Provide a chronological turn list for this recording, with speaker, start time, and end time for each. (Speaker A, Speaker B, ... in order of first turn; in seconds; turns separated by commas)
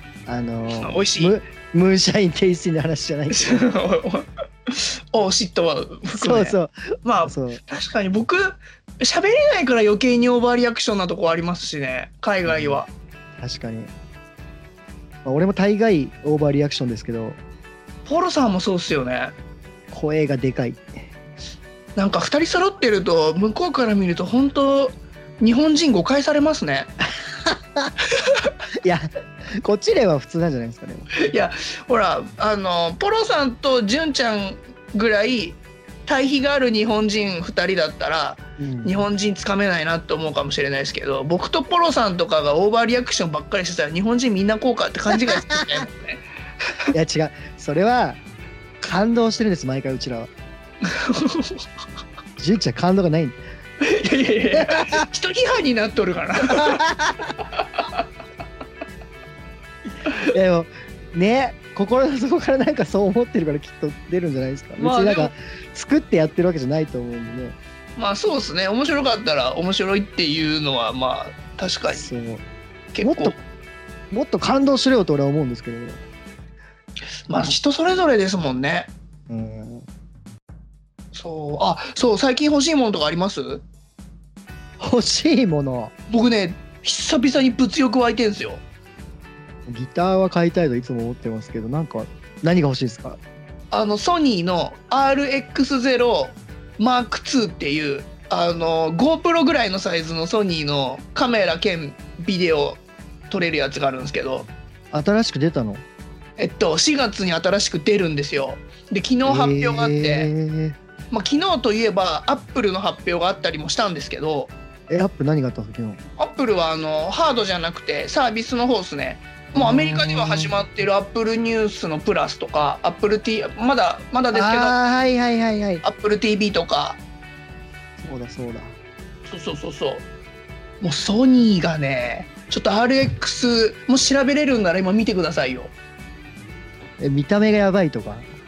Speaker A: 0.3-3.7, Speaker B: 0.7-1.4, Speaker B: 3.3-12.9, Speaker A: 6.1-7.6, Speaker A: 12.5-12.8, Speaker A: 13.4-13.9, Speaker A: 15.2-17.4, Speaker B: 18.1-19.3, Speaker A: 19.9-21.1, Speaker B: 22.0-26.9, Speaker A: 27.4-27.9, Speaker A: 28.8-31.1, Speaker B: 31.2-46.2, Speaker A: 38.6-39.0, Speaker A: 45.4-45.6, Speaker A: 46.9-48.2, Speaker A: 48.8-50.3, Speaker B: 50.9-51.6, Speaker A: 52.4-53.4, Speaker B: 53.8-56.8, Speaker A: 54.5-55.1, Speaker A: 56.5-57.3, Speaker B: 57.6-58.0, Speaker A: 60.3-67.6, Speaker B: 64.8-65.3, Speaker B: 68.0-72.1, Speaker A: 71.9-72.4, Speaker B: 72.9-73.4, Speaker A: 73.0-73.4, Speaker A: 74.1-76.0, Speaker B: 77.3-78.9, Speaker A: 79.3-79.9, Speaker B: 81.1-83.6, Speaker A: 84.8-85.9, Speaker B: 86.1-88.6, Speaker A: 89.7-93.2, Speaker B: 93.7-104.5, Speaker A: 104.9-105.8, Speaker B: 106.4-110.3, Speaker A: 109.2-110.8, Speaker B: 111.1-114.5, Speaker A: 114.9-116.0, Speaker B: 116.2-124.8, Speaker A: 119.5-120.5, Speaker A: 124.3-125.8, Speaker B: 125.8-127.0, Speaker A: 128.0-128.8, Speaker B: 129.3-130.1, Speaker B: 130.8-135.7, Speaker A: 137.0-138.3